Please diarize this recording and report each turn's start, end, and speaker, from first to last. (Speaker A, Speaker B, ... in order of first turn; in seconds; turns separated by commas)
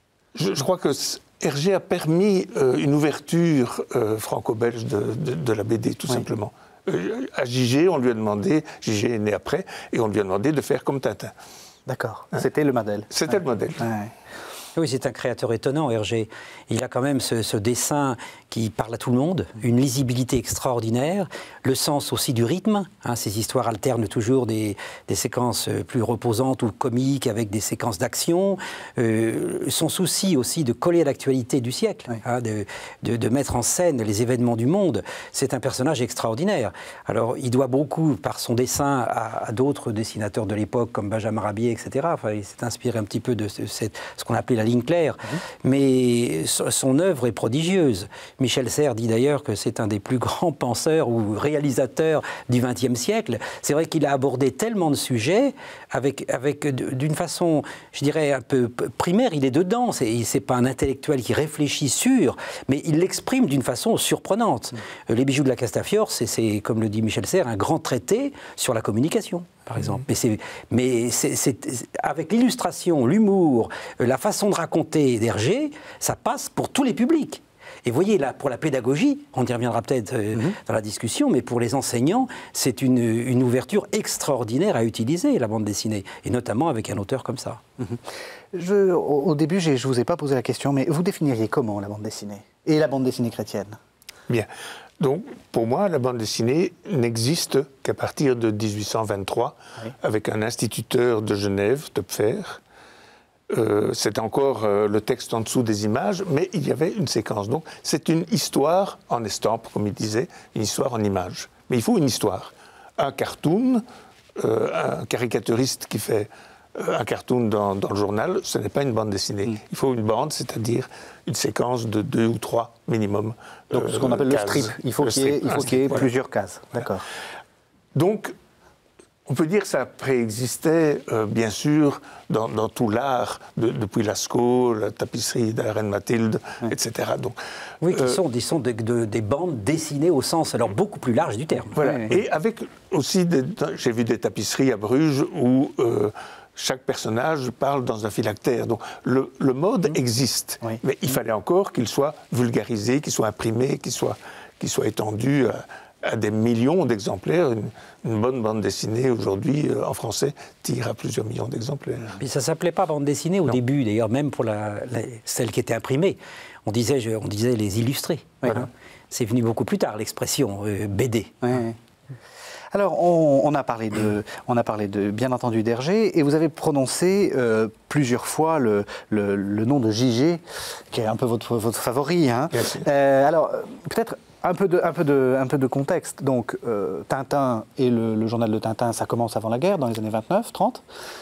Speaker A: 0.3-11.3, Speaker B: 11.9-14.1, Speaker A: 13.1-13.9, Speaker C: 14.8-87.6, Speaker B: 87.8-93.8, Speaker A: 95.0-102.6, Speaker A: 103.5-113.8, Speaker A: 114.4-126.1, Speaker B: 123.7-127.0, Speaker A: 127.9-128.3, Speaker A: 129.3-137.4, Speaker C: 137.8-141.8, Speaker A: 137.9-138.2, Speaker A: 141.8-162.2, Speaker B: 141.8-142.1, Speaker C: 162.2-171.4, Speaker B: 171.4-171.8, Speaker B: 172.7-190.8, Speaker A: 182.5-182.8